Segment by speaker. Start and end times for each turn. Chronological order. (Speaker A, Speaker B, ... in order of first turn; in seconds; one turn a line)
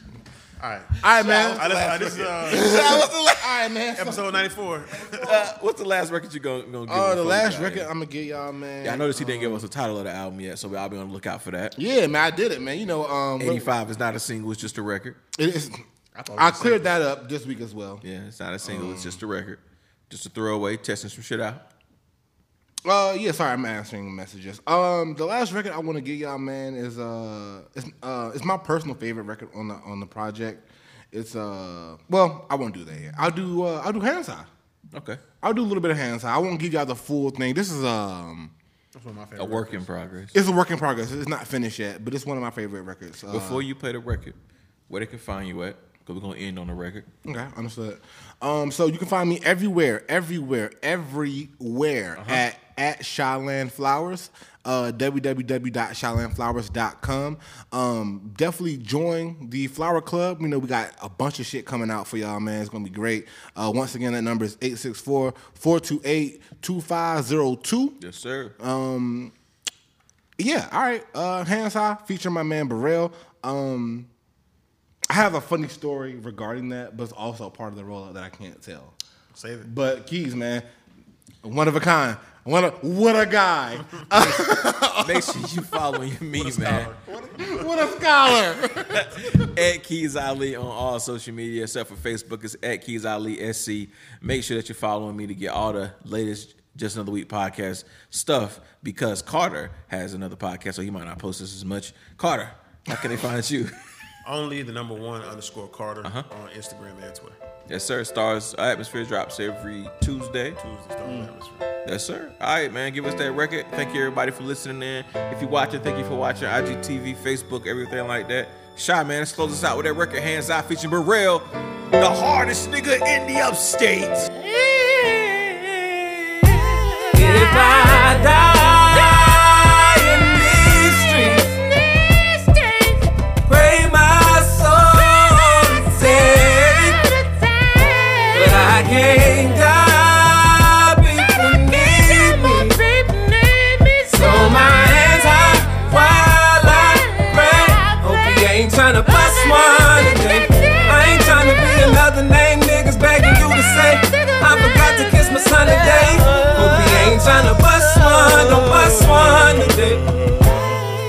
Speaker A: 0.6-3.0
Speaker B: 1.0-4.5
Speaker C: 1.7-3.5
Speaker A: 4.0-5.4
Speaker C: 5.2-7.9
Speaker B: 6.9-9.7
Speaker C: 8.8-11.8
Speaker B: 11.8-13.7
Speaker C: 13.4-15.2
Speaker B: 15.3-18.0
Speaker A: 16.2-16.9
Speaker C: 18.0-21.7
Speaker B: 18.6-19.2
Speaker B: 22.8-34.5
Speaker C: 34.9-35.2
Speaker B: 35.4-38.5
Speaker A: 38.9-39.9
Speaker C: 39.4-40.4
Speaker B: 40.3-43.6
Speaker C: 43.3-44.4
Speaker C: 44.9-47.1
Speaker B: 47.2-68.0
Speaker C: 52.2-52.4
Speaker C: 68.0-68.6
Speaker B: 68.6-69.3
Speaker B: 70.4-74.1
Speaker B: 75.1-79.0
Speaker A: 79.3-79.7
Speaker B: 79.6-80.7
Speaker B: 81.4-85.7
Speaker C: 85.0-86.9
Speaker A: 86.3-88.0
Speaker B: 87.4-89.5
Speaker C: 88.9-103.8
Speaker A: 104.2-107.4
Speaker C: 107.7-110.6
Speaker A: 110.6-111.7
Speaker B: 111.0-111.3
Speaker C: 111.8-124.3
Speaker D: 124.4-125.8
Speaker D: 127.1-132.9
Speaker D: 133.5-160.1
Speaker C: 156.2-160.4